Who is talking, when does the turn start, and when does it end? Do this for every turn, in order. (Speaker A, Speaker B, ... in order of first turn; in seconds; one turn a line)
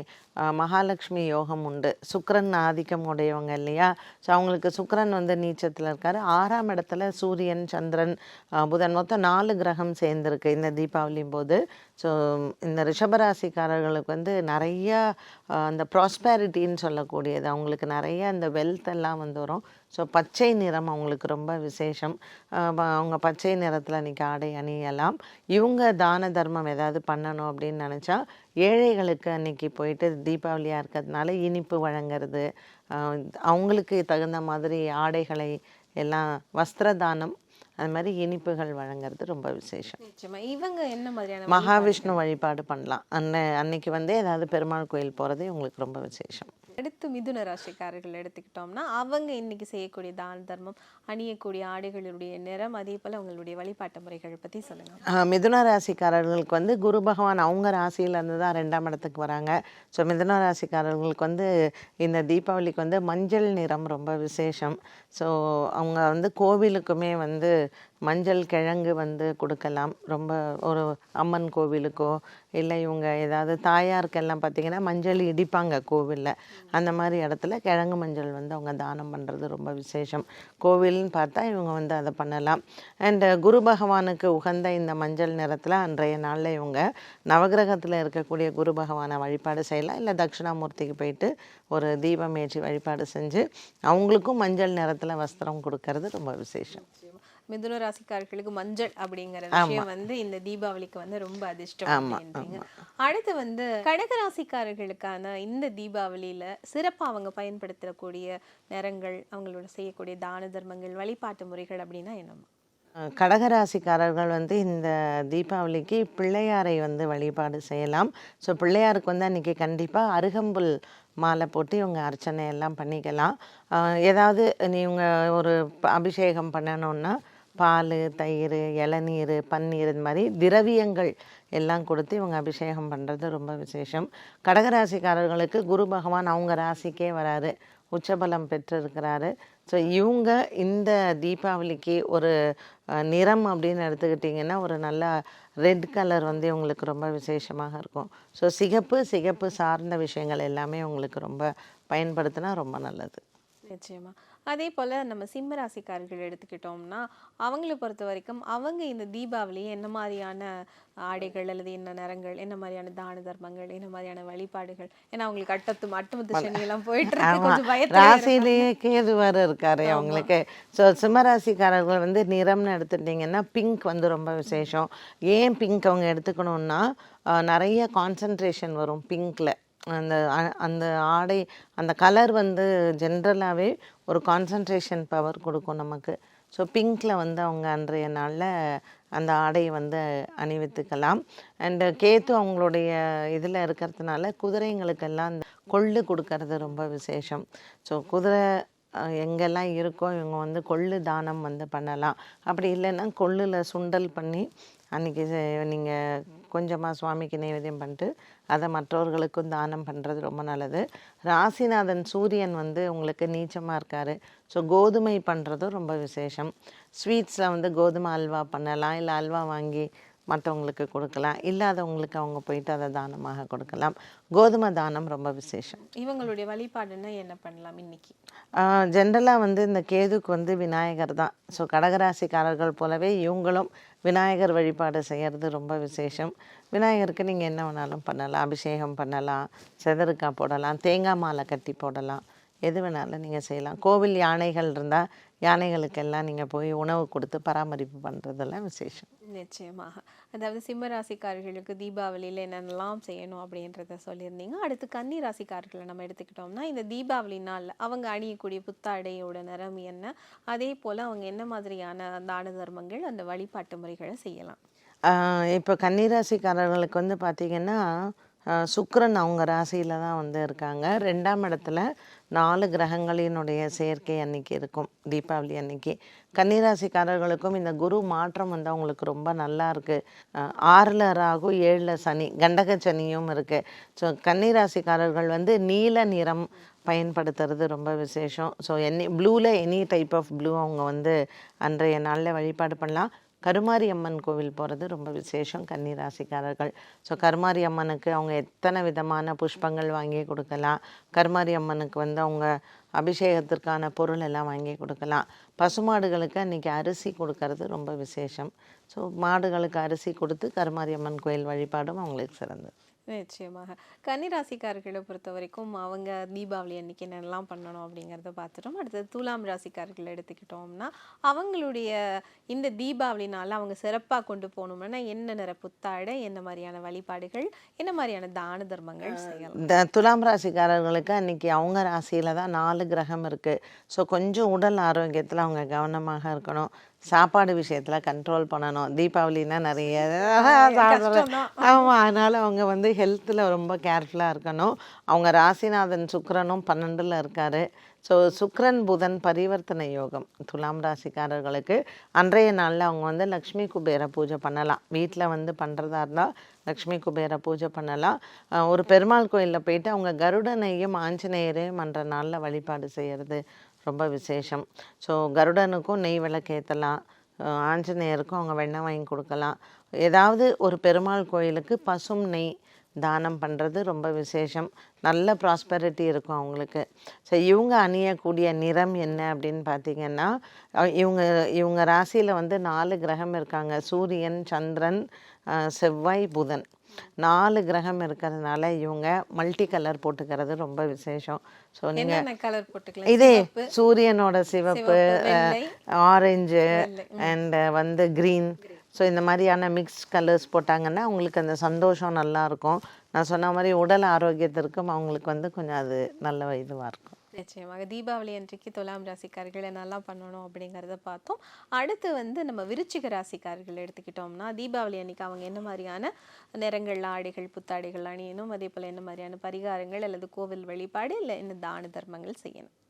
Speaker A: 0.5-40.0
Speaker B: 40.0-42.2
Speaker A: 41.5-46.5
Speaker B: 46.8-55.0
Speaker A: 55.1-61.5
Speaker A: 62.0-67.5
Speaker A: 68.0-96.8
Speaker B: 96.7-112.5
Speaker A: 99.5-99.9
Speaker A: 101.9-102.6
Speaker A: 113.0-120.7
Speaker A: 121.2-142.3
Speaker A: 143.0-145.1
Speaker A: 145.6-153.2
Speaker B: 153.7-160.5
Speaker B: 161.0-168.7
Speaker A: 167.2-198.4
Speaker B: 169.8-170.3
Speaker A: 199.2-225.8
Speaker B: 225.8-228.1
Speaker A: 228.6-249.1
Speaker B: 249.3-264.6
Speaker A: 265.1-267.8
Speaker A: 268.5-312.7
Speaker B: 313.1-321.9
Speaker B: 322.5-329.6
Speaker A: 329.1-380.3
Speaker B: 340.3-341.9
Speaker A: 380.8-385.0
Speaker A: 385.5-386.6
Speaker A: 387.2-392.2
Speaker B: 391.9-393.7
Speaker A: 393.1-407.1
Speaker B: 394.7-395.7
Speaker B: 396.7-397.3
Speaker B: 407.3-422.7